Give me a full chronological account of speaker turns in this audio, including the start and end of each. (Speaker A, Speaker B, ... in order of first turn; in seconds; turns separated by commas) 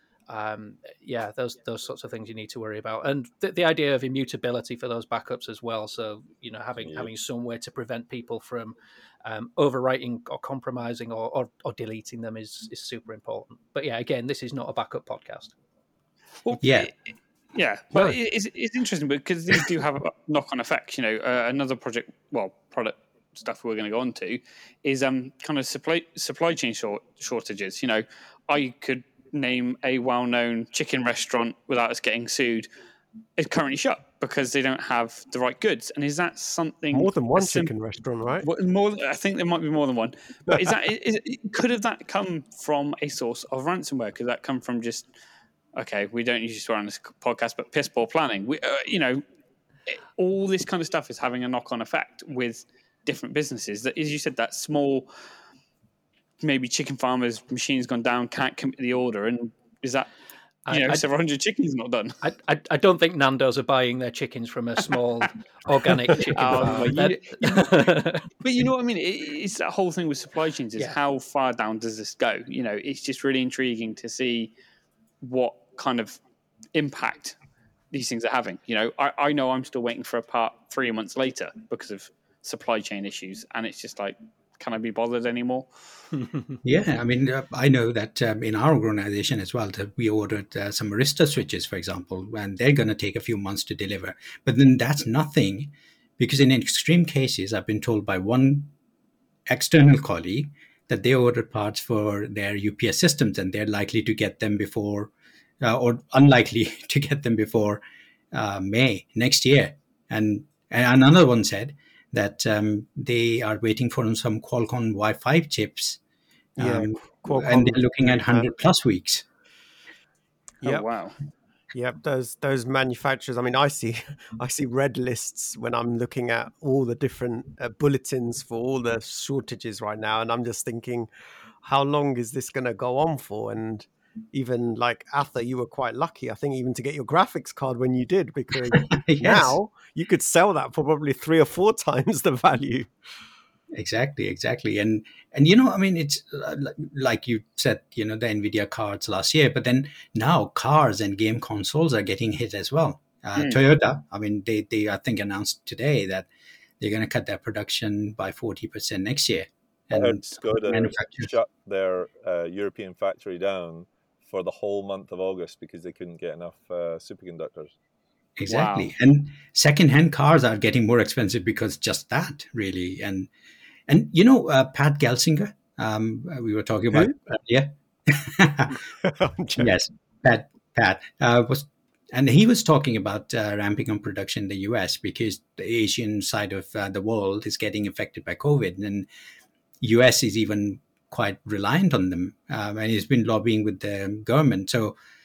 Speaker A: 0.3-15.5, Speaker B: 6.8-7.1, Speaker C: 16.4-16.9, Speaker D: 16.6-16.9, Speaker C: 17.5-32.7, Speaker C: 33.4-37.7, Speaker E: 36.9-38.5, Speaker C: 38.4-45.1, Speaker C: 45.8-49.2, Speaker C: 49.9-55.1, Speaker C: 56.4-60.1, Speaker A: 60.7-61.0, Speaker C: 60.7-62.2, Speaker A: 62.2-68.3, Speaker C: 66.1-67.9, Speaker E: 66.4-67.0, Speaker C: 68.4-74.5, Speaker C: 75.2-76.2, Speaker C: 76.8-77.4, Speaker C: 77.9-85.7, Speaker A: 86.1-86.6, Speaker D: 86.6-98.7, Speaker D: 99.5-116.0, Speaker D: 116.6-119.2, Speaker E: 116.6-118.5, Speaker C: 120.6-121.2, Speaker E: 121.7-131.1, Speaker E: 131.6-142.9, Speaker D: 138.7-139.6, Speaker D: 143.7-156.3, Speaker D: 156.8-161.3, Speaker B: 159.9-167.7, Speaker D: 168.4-173.3, Speaker C: 168.5-168.9, Speaker D: 173.9-178.8, Speaker E: 178.8-179.7, Speaker D: 179.6-189.1, Speaker D: 189.8-195.0